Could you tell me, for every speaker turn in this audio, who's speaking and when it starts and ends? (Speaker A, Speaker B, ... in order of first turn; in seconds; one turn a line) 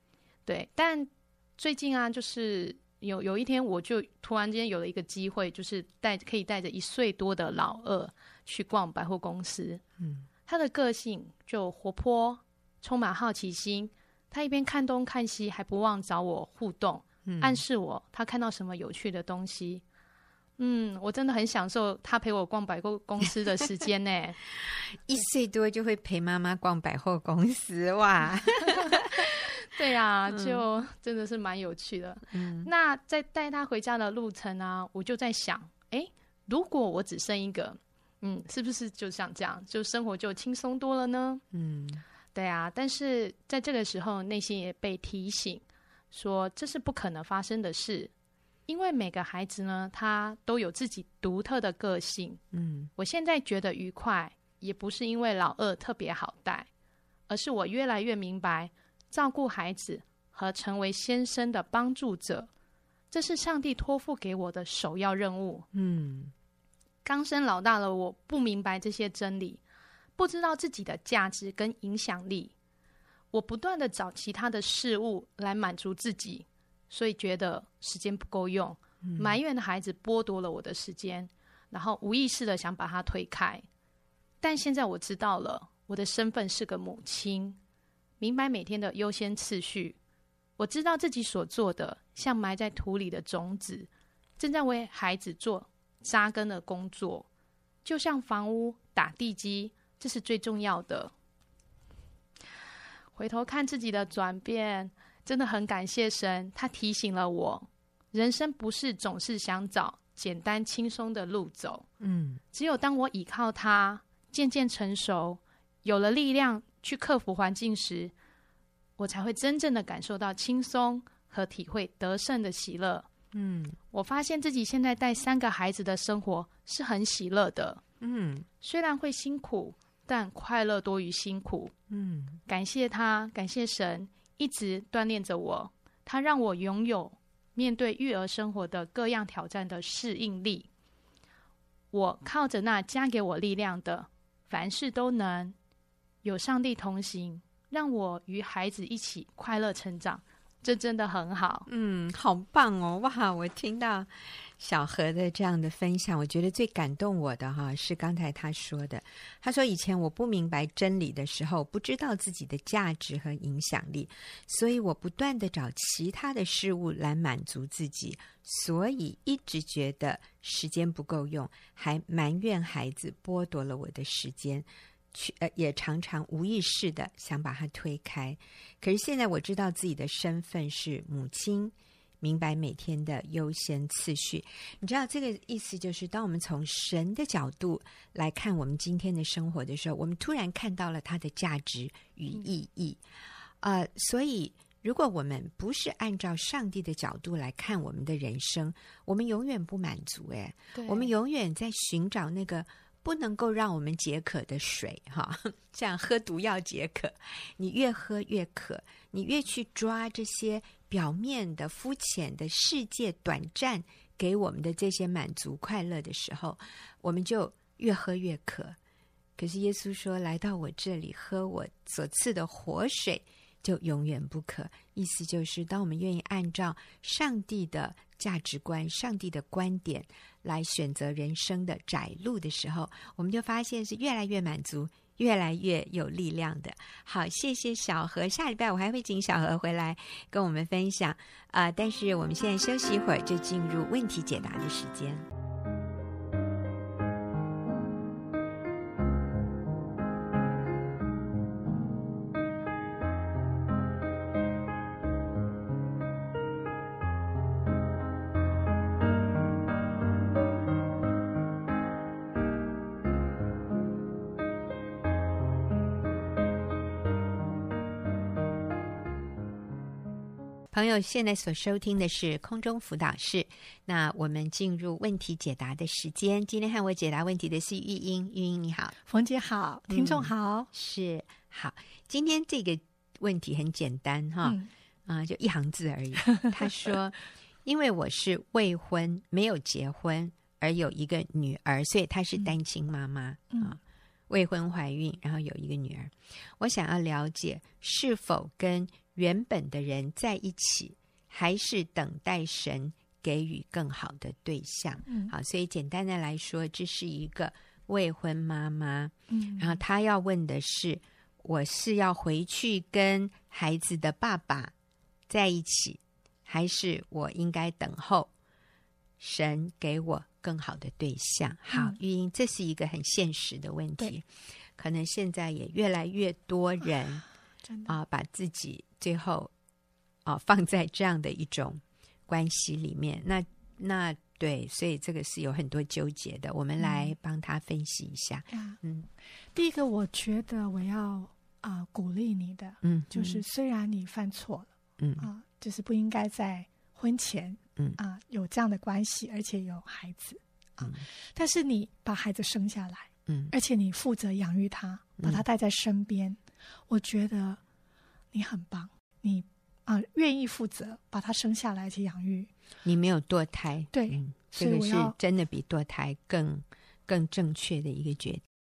Speaker A: 0.5-9.8
Speaker B: 10.0-10.3
Speaker A: 10.4-19.8
Speaker B: 17.2-17.6
Speaker A: 20.6-24.4
Speaker B: 24.7-29.5
Speaker A: 28.7-41.4
Speaker B: 30.3-30.6
Speaker B: 32.3-32.7
Speaker B: 41.5-42.0
Speaker A: 42.3-48.1
Speaker A: 48.7-52.4
Speaker B: 52.5-52.9
Speaker A: 53.0-56.7
Speaker A: 57.3-62.5
Speaker A: 63.1-65.7
Speaker B: 65.7-66.3
Speaker A: 67.0-69.6
Speaker A: 70.2-72.5
Speaker A: 73.3-83.6
Speaker B: 79.0-79.4
Speaker A: 84.4-87.6
Speaker A: 88.2-90.0
Speaker A: 90.6-97.3
Speaker A: 97.8-101.1
Speaker A: 103.1-111.8
Speaker B: 112.0-112.4
Speaker A: 112.5-118.1
Speaker A: 119.0-123.1
Speaker B: 123.3-123.8
Speaker A: 123.9-127.8
Speaker B: 128.0-128.5
Speaker A: 128.6-131.7
Speaker B: 131.9-132.4
Speaker A: 132.5-140.7
Speaker A: 141.9-145.5
Speaker A: 146.2-151.7
Speaker B: 151.7-193.0
Speaker B: 193.6-218.8
Speaker A: 200.7-201.1
Speaker B: 219.4-245.2
Speaker B: 270.7-278.9
Speaker C: 279.1-280.7
Speaker B: 279.9-314.7
Speaker C: 305.1-305.3
Speaker C: 309.3-309.8
Speaker B: 315.3-318.3
Speaker B: 319.2-327.2
Speaker B: 327.9-329.5
Speaker B: 330.2-339.1
Speaker C: 336.8-337.1
Speaker C: 338.5-338.8
Speaker C: 339.5-356.4
Speaker B: 342.8-343.4
Speaker B: 345.0-345.3
Speaker B: 350.8-351.1
Speaker B: 353.3-353.5
Speaker B: 355.2-355.4
Speaker C: 356.9-357.6
Speaker C: 358.3-362.5
Speaker B: 362.8-368.4
Speaker C: 363.9-365.1